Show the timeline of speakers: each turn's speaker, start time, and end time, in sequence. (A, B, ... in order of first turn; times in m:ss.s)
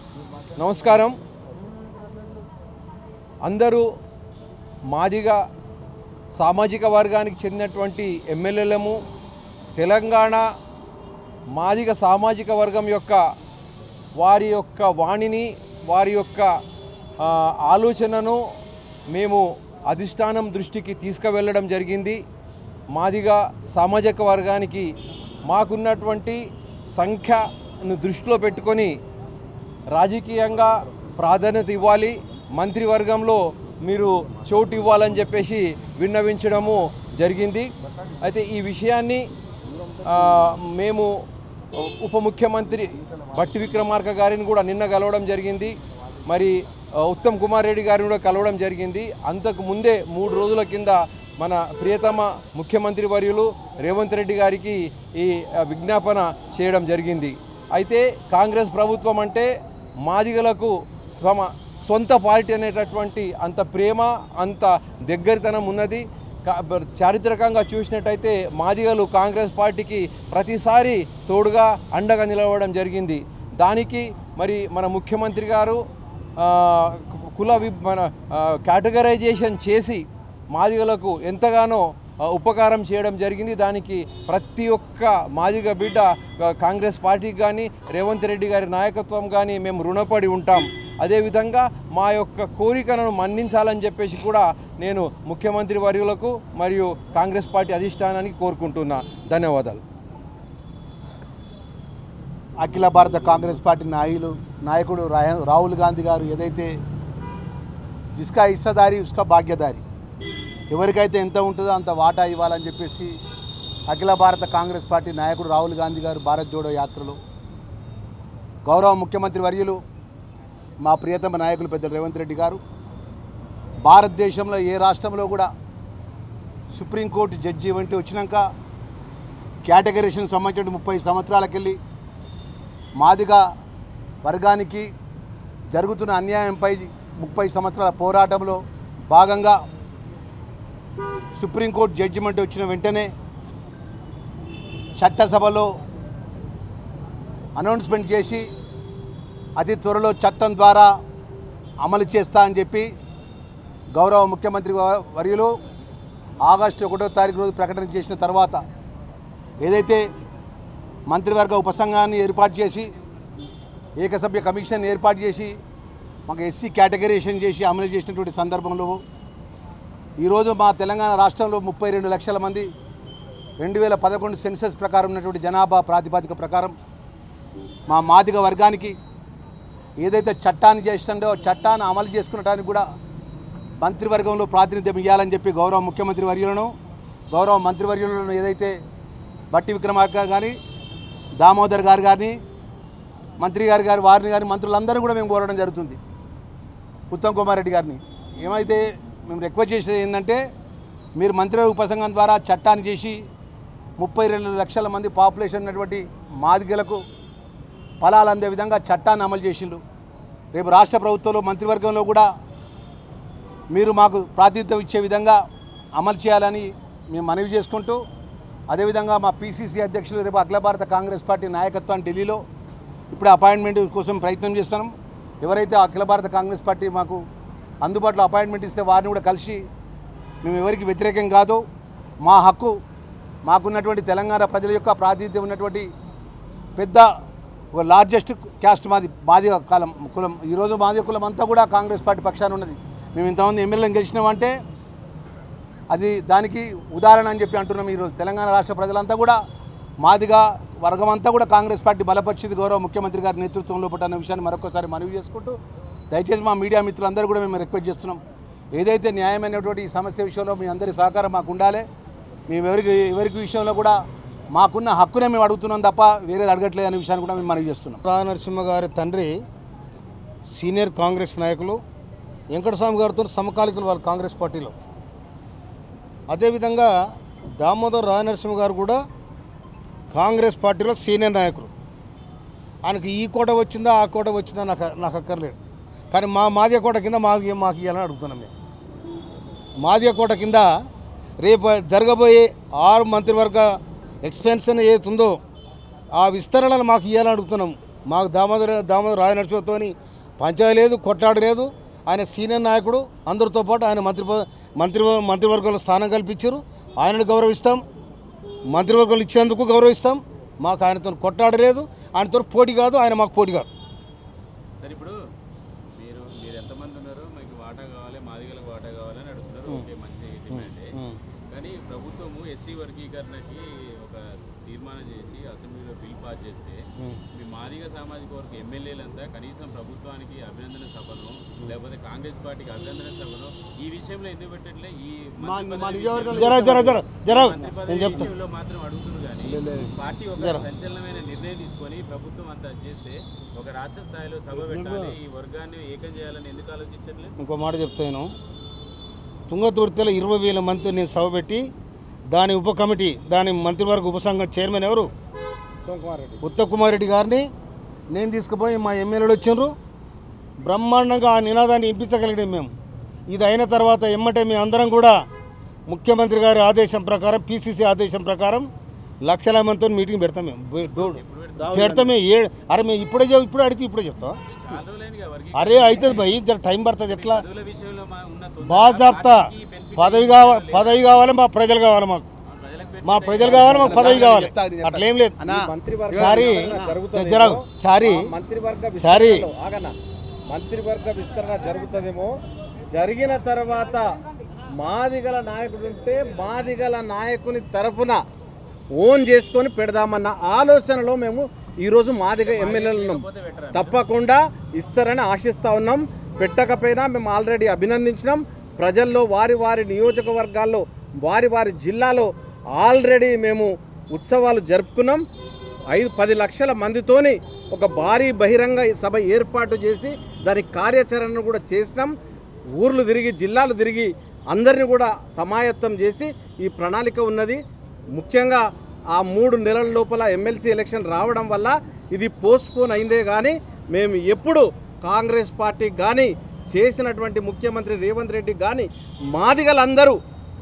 0:00.6-0:01.2 A
0:03.4-0:03.8 A
0:04.9-0:05.4 A
0:06.4-0:09.0 A
0:09.8-0:10.5 A
0:11.6-0:13.2 A
0:14.2-0:16.5 A
0:17.2-0:18.4 A
0:19.1-0:22.2 A
0:22.9-0:24.9 A
0:25.5-0:29.0 A
0:29.9-0:39.3 A
0:40.1-0:41.2 A
0:41.7-0:45.8 A
0:46.3-0:59.5 A
1:00.0-1:15.8 A
1:16.4-1:39.8 A
1:42.6-1:46.8 B
1:48.2-1:49.8 B
1:50.7-1:53.1 B
1:53.9-1:57.2 B
1:58.6-1:59.8 B
2:00.8-2:02.6 B
2:03.8-2:05.5 B
2:06.7-2:08.5 B
2:09.6-2:11.8 B
2:13.0-2:13.4 B
2:14.2-2:14.9 B
2:15.7-2:19.6 B
2:21.4-2:23.1 B
2:25.0-2:25.7 B
2:27.6-2:28.5 B
2:29.6-2:30.9 B
2:31.8-2:32.9 B
2:33.9-2:35.6 B
2:36.4-2:38.6 B
2:39.6-2:40.1 B
2:41.1-2:42.9 B
2:44.0-2:45.6 B
2:46.3-2:49.0 B
2:50.2-2:52.7 B
2:53.6-2:56.8 B
2:57.9-2:59.0 B
3:00.0-3:02.8 B
3:03.8-3:06.7 B
3:07.3-3:08.8 B
3:09.5-3:10.5 B
3:11.4-3:12.4 B
3:13.4-3:16.0 B
3:17.1-3:20.4 B
3:21.2-3:23.2 B
3:24.0-3:27.0 B
3:28.0-3:29.8 B
3:30.5-3:32.3 B
3:33.7-3:35.4 B
3:36.0-3:38.0 B
3:38.7-3:42.4 B
3:43.1-3:47.2 B
3:47.8-3:49.6 B
3:50.4-3:51.6 B
3:52.2-3:52.8 B
3:53.4-3:55.9 B
3:56.8-3:57.1 B
3:57.7-4:04.5 B
4:05.9-4:09.4 B
4:10.0-4:15.6 B
4:16.1-4:18.2 B
4:18.7-4:21.8 B
4:22.5-4:24.0 B
4:24.5-4:28.0 B
4:28.0-4:29.4 C
4:30.5-4:31.8 C
4:32.5-4:34.8 C
4:36.3-4:36.9 C
4:37.6-4:39.0 C
4:40.1-4:41.7 C
4:42.8-4:45.6 C
4:46.1-4:48.5 C
4:49.8-4:50.7 C
4:51.4-4:55.4 C
4:56.2-5:07.8 C
5:08.7-5:13.7 C
5:14.8-5:15.2 D
5:16.0-5:20.9 D
5:20.5-5:21.2 C
5:21.5-5:47.3 D
5:35.4-5:37.0 B
5:35.6-5:36.4 E
5:36.3-5:38.3 C
5:39.5-5:39.9 B
5:40.4-5:40.6 C
5:44.8-5:45.1 B
5:47.4-5:48.3 C
5:49.5-5:51.7 C
5:52.3-5:55.1 C
5:55.8-5:56.4 E
5:56.4-5:57.5 C
5:58.1-5:59.7 C
6:00.6-6:02.7 C
6:03.3-6:05.2 C
6:05.9-6:08.7 C
6:09.2-6:14.4 C
6:10.9-6:12.0 D
6:11.6-6:12.1 B
6:14.5-6:16.3 D
6:15.5-6:17.4 C
6:17.1-6:21.2 D
6:18.6-6:22.3 C
6:22.5-6:24.2 D
6:23.0-6:25.5 C
6:23.4-6:27.3 B
6:25.6-6:27.5 E
6:26.1-6:28.3 C
6:28.1-6:30.0 E
6:29.0-6:29.5 C
6:29.1-6:29.6 B
6:30.5-6:32.4 E
6:32.9-6:38.2 E
6:38.9-6:42.9 E
6:42.3-6:44.0 D
6:43.9-6:55.2 E
6:44.1-6:44.4 B
6:45.0-6:45.6 B
6:46.4-6:48.1 B
6:50.2-6:50.5 B
6:55.9-7:02.2 E
6:56.2-6:57.2 B
6:58.5-6:59.1 B
7:02.7-7:07.6 E
7:03.1-7:03.6 B
7:04.6-7:05.0 B
7:06.6-7:07.5 B
7:08.1-7:20.2 E
7:09.4-7:11.4 B
7:12.2-7:13.2 B
7:13.9-7:16.2 B
7:17.2-7:18.8 B